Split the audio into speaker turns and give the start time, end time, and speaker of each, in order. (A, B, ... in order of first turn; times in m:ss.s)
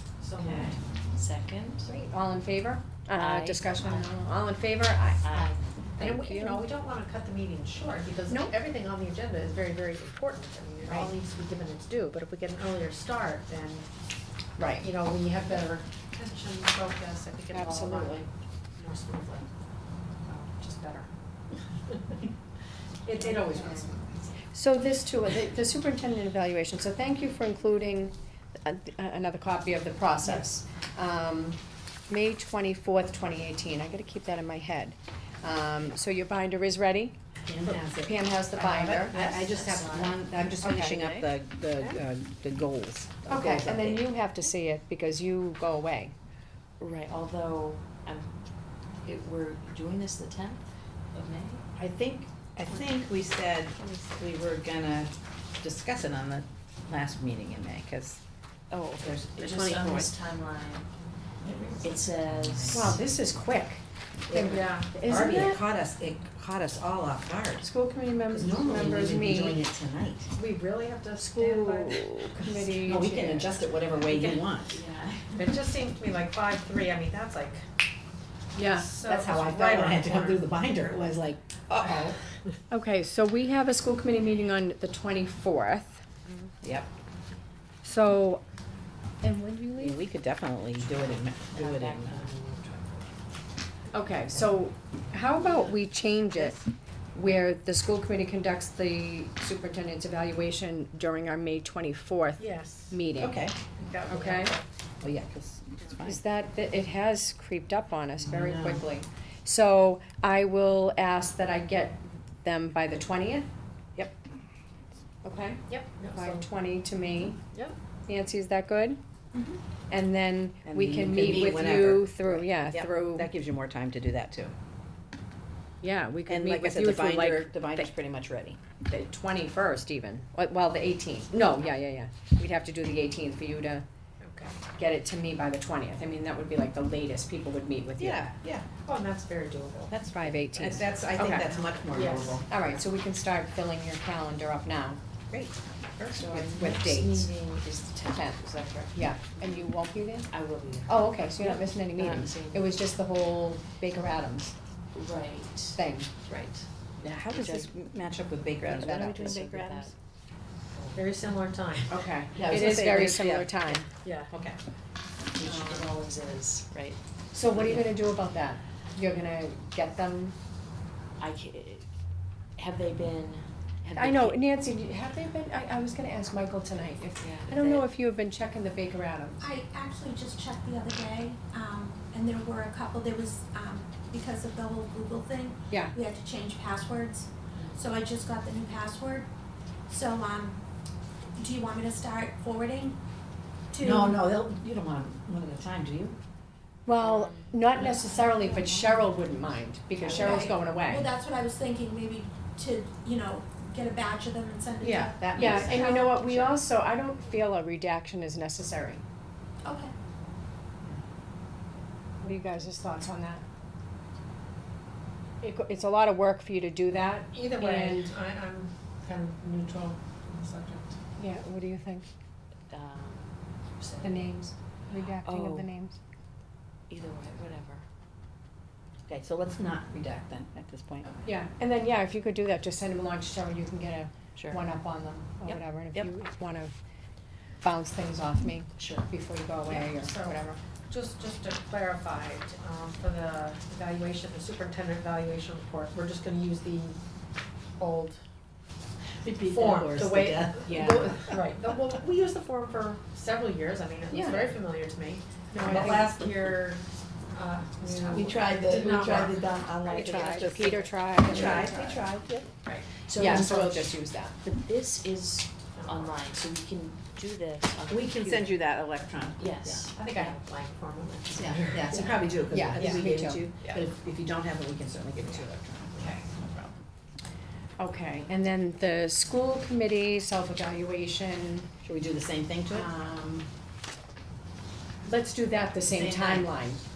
0:00.2-0:00.8 A
0:00.4-0:00.8 B
0:01.1-0:01.9 C
0:01.8-0:06.6 D
0:03.1-0:04.1 C
0:05.2-0:05.6 C
0:06.0-0:13.9 A
0:14.6-0:14.9 D
0:14.7-0:19.5 A
0:17.5-0:18.3 D
0:20.2-0:21.1 A
0:23.0-0:37.2 D
0:23.1-0:23.9 A
0:37.5-0:44.1 B
0:37.9-0:39.2 D
0:39.1-0:41.3 C
0:40.6-0:41.0 D
0:43.3-0:46.1 D
0:46.8-0:48.3 C
0:49.0-0:51.6 C
0:51.8-0:58.2 B
0:58.7-1:00.9 C
0:59.0-1:00.1 B
1:01.4-1:03.0 B
1:01.8-1:03.0 C
1:02.7-1:05.6 D
1:04.4-1:05.0 A
1:05.0-1:07.7 B
1:07.6-1:09.6 D
1:08.2-1:10.3 B
1:10.3-1:12.4 A
1:11.2-1:13.5 D
1:12.4-1:14.8 B
1:14.0-1:14.5 A
1:14.7-1:15.5 C
1:15.3-1:17.6 A
1:18.5-1:18.9 D
1:18.6-1:20.4 A
1:19.0-1:22.2 B
1:22.7-1:26.0 D
1:26.6-1:26.9 B
1:27.8-1:28.4 D
1:29.2-1:30.0 D
1:29.8-1:32.3 B
1:31.5-1:32.5 C
1:32.5-1:32.9 A
1:33.9-1:36.6 D
1:37.1-1:43.4 D
1:42.4-1:43.0 A
1:43.1-1:43.6 B
1:43.8-1:44.6 A
1:44.1-1:44.6 D
1:45.0-1:46.2 B
1:46.0-1:53.5 D
1:48.2-1:48.8 B
1:55.2-1:55.6 D
1:55.7-1:56.5 A
1:56.1-1:57.4 D
1:58.1-1:59.0 D
1:59.9-2:03.3 D
2:00.6-2:04.5 B
2:05.8-2:07.9 D
2:06.3-2:08.6 B
2:08.8-2:13.8 D
2:14.2-2:14.6 A
2:14.8-2:18.3 D
2:18.0-2:18.7 B
2:18.8-2:19.9 A
2:19.9-2:22.8 B
2:20.1-2:21.5 D
2:21.0-2:22.4 A
2:22.4-2:25.0 D
2:25.3-2:25.6 B
2:26.0-2:27.3 D
2:26.1-2:29.0 C
2:27.9-2:30.3 D
2:30.3-2:32.8 C
2:30.8-2:34.5 D
2:34.9-2:36.6 C
2:35.7-2:36.1 D
2:37.0-2:39.9 B
2:37.3-2:37.7 C
2:38.7-2:39.4 D
2:38.7-2:39.9 C
2:40.7-2:41.0 C
2:40.9-2:42.0 A
2:41.9-2:43.8 D
2:42.3-2:44.6 B
2:44.0-2:44.3 A
2:45.3-2:47.0 C
2:45.4-2:45.9 D
2:47.3-2:50.4 D
2:47.5-2:47.9 C
2:51.2-2:51.8 C
2:52.6-2:54.4 C
2:53.9-2:59.5 D
2:57.2-2:57.9 C
2:59.4-3:09.3 E
3:05.7-3:05.9 D
3:09.9-3:10.6 E
3:11.4-3:13.0 E
3:13.7-3:14.2 E
3:13.8-3:16.2 B
3:16.8-3:21.1 D
3:17.0-3:19.0 C
3:20.0-3:20.7 C
3:20.2-3:26.2 E
3:24.8-3:26.5 B
3:25.4-3:29.0 D
3:29.6-3:29.9 E
3:32.2-3:33.4 D
3:35.4-3:38.1 D
3:37.3-3:41.0 A
3:41.2-3:42.1 D
3:42.7-3:43.3 C
3:44.0-3:46.0 D
3:45.2-3:45.7 C
3:46.9-3:47.8 C
3:49.1-3:51.1 B
3:51.2-3:56.8 D
3:55.4-3:56.1 B
3:57.6-4:00.6 D
3:58.8-3:59.0 C
3:59.6-4:07.0 A
4:07.8-4:08.2 A
4:09.2-4:11.3 B
4:09.2-4:19.5 A
4:10.6-4:11.2 D
4:14.1-4:14.6 D
4:15.5-4:16.0 D
4:15.6-4:16.3 B
4:18.1-4:22.5 B
4:19.8-4:22.1 D
4:21.3-4:21.9 A
4:23.0-4:28.4 C
4:23.1-4:24.4 D
4:25.7-4:26.2 A
4:27.9-4:29.9 B
4:29.4-4:30.3 C
4:29.9-4:32.0 A
4:30.0-4:30.3 D
4:31.3-4:36.8 B
4:32.5-4:33.4 D
4:32.8-4:33.1 A
4:36.0-4:36.2 A
4:37.8-4:41.7 D
4:41.8-4:42.9 B
4:42.7-4:43.5 D
4:45.0-4:46.8 D
4:45.8-4:46.5 B